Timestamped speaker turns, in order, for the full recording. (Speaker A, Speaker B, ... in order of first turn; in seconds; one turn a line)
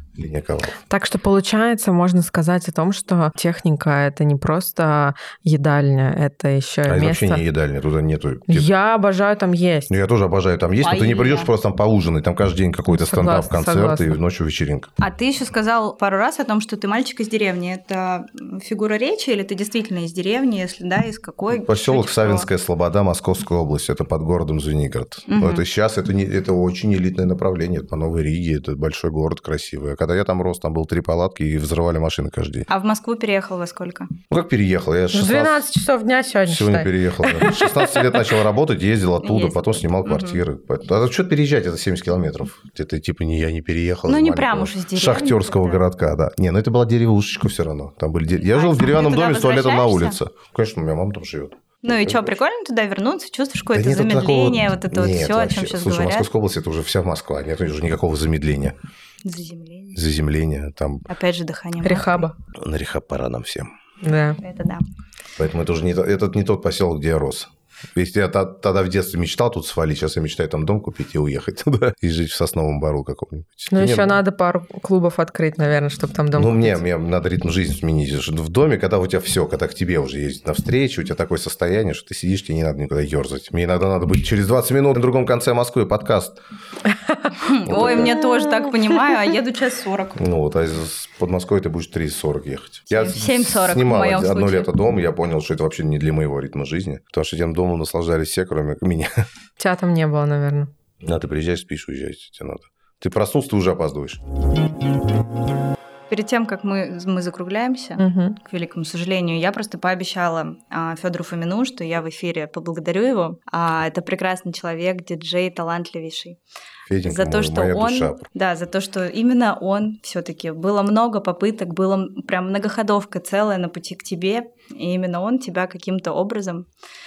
Speaker A: 0.2-0.8
Speaker B: 0.9-7.4
Speaker A: 6.9-8.7
Speaker B: 8.5-9.9
Speaker A: 9.9-14.9
Speaker C: 10.8-11.5
Speaker B: 12.9-14.2
Speaker C: 15.0-22.5
Speaker A: 21.5-32.7
Speaker C: 25.3-25.7
Speaker C: 32.7-34.1
Speaker A: 34.3-35.6
Speaker B: 35.1-38.0
Speaker A: 36.5-52.4
Speaker C: 39.2-40.4
Speaker C: 44.0-45.8
Speaker C: 48.4-50.2
Speaker C: 51.8-56.3
Speaker A: 53.7-58.8
Speaker C: 59.2-60.0
Speaker A: 59.9-61.1
Speaker C: 61.1-62.3
Speaker B: 61.8-62.4
Speaker A: 62.5-63.7
Speaker B: 64.0-64.4
Speaker C: 64.4-64.9
Speaker A: 65.4-74.2
Speaker B: 73.7-76.8
Speaker A: 76.3-86.4
Speaker C: 87.4-90.2
Speaker A: 87.6-88.2
Speaker A: 90.2-99.2
Speaker C: 92.9-94.7
Speaker B: 99.6-100.7
Speaker A: 101.0-104.2
Speaker C: 106.1-116.4
Speaker B: 108.0-108.4
Speaker A: 116.9-118.2
Speaker C: 117.0-126.7